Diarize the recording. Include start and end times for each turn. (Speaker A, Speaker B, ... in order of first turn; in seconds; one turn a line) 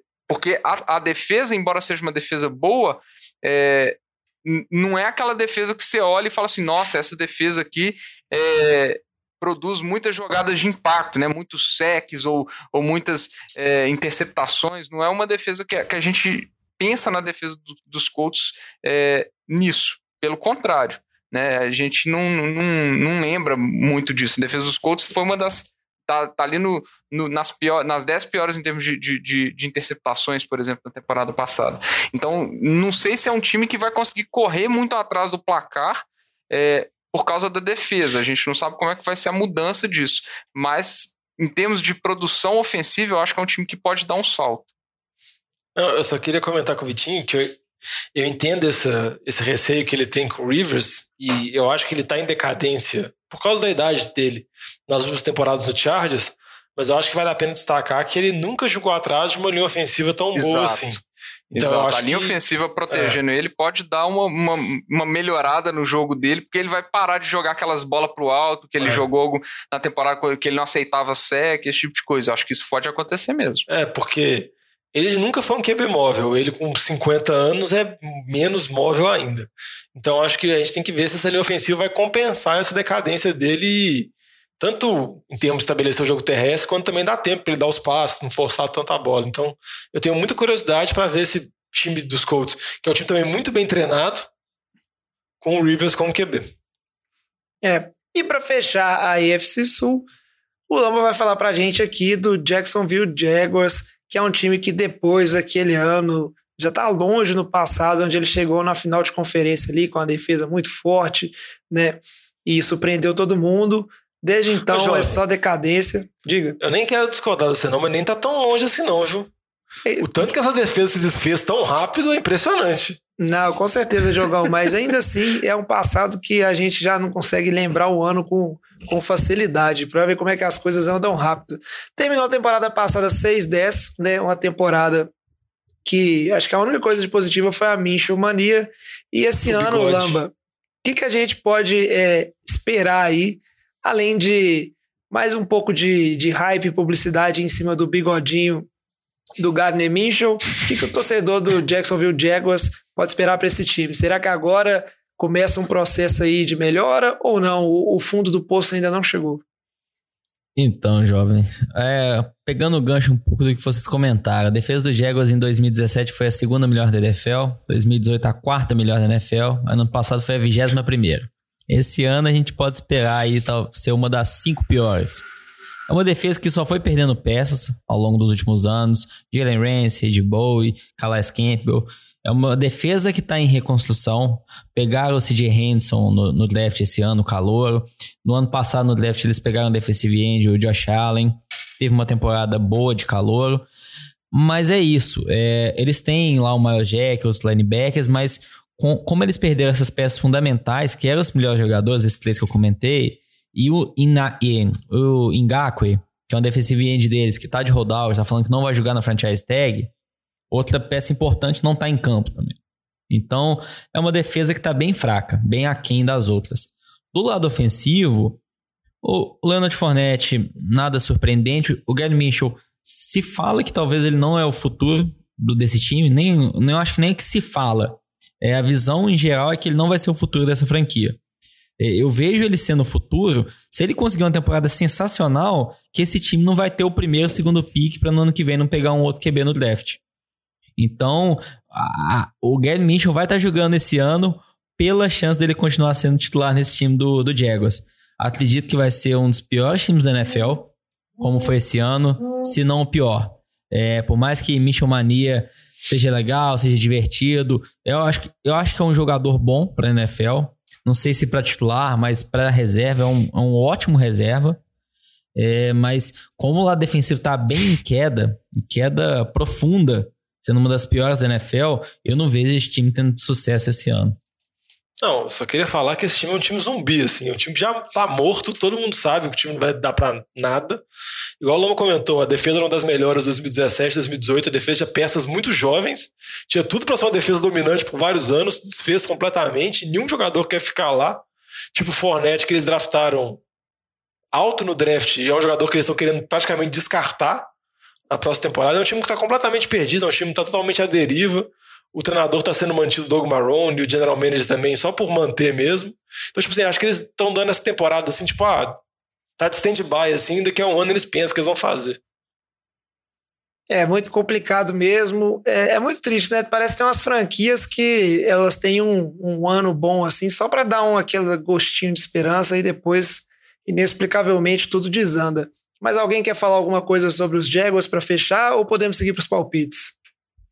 Speaker A: 0.3-44.6
Speaker B: 45.8-47.6
Speaker B: 48.1-62.4
Speaker A: 60.4-61.0
Speaker A: 61.5-73.7
Speaker B: 62.9-63.2
Speaker B: 68.8-69.1
Speaker B: 73.7-94.3
Speaker B: 95.4-96.5
Speaker C: 97.6-100.1
Speaker C: 100.7-116.6
Speaker B: 114.7-115.2
Speaker B: 116.6-119.3
Speaker C: 119.8-120.1
Speaker B: 120.0-123.0
Speaker C: 123.2-135.1
Speaker C: 135.8-140.3
Speaker B: 139.5-140.2
Speaker C: 140.8-148.7
Speaker C: 149.4-159.4
Speaker D: 160.6-175.2
Speaker D: 175.9-193.7
Speaker D: 194.3-209.9
Speaker D: 210.5-212.6
Speaker D: 213.1-218.4
Speaker D: 219.0-231.2
Speaker D: 231.8-240.0
Speaker D: 240.8-264.6
Speaker D: 265.4-274.2
Speaker B: 275.0-280.8
Speaker B: 281.4-293.4
Speaker B: 294.3-297.5
Speaker B: 298.1-308.8
Speaker B: 309.4-312.0
Speaker C: 313.7-329.9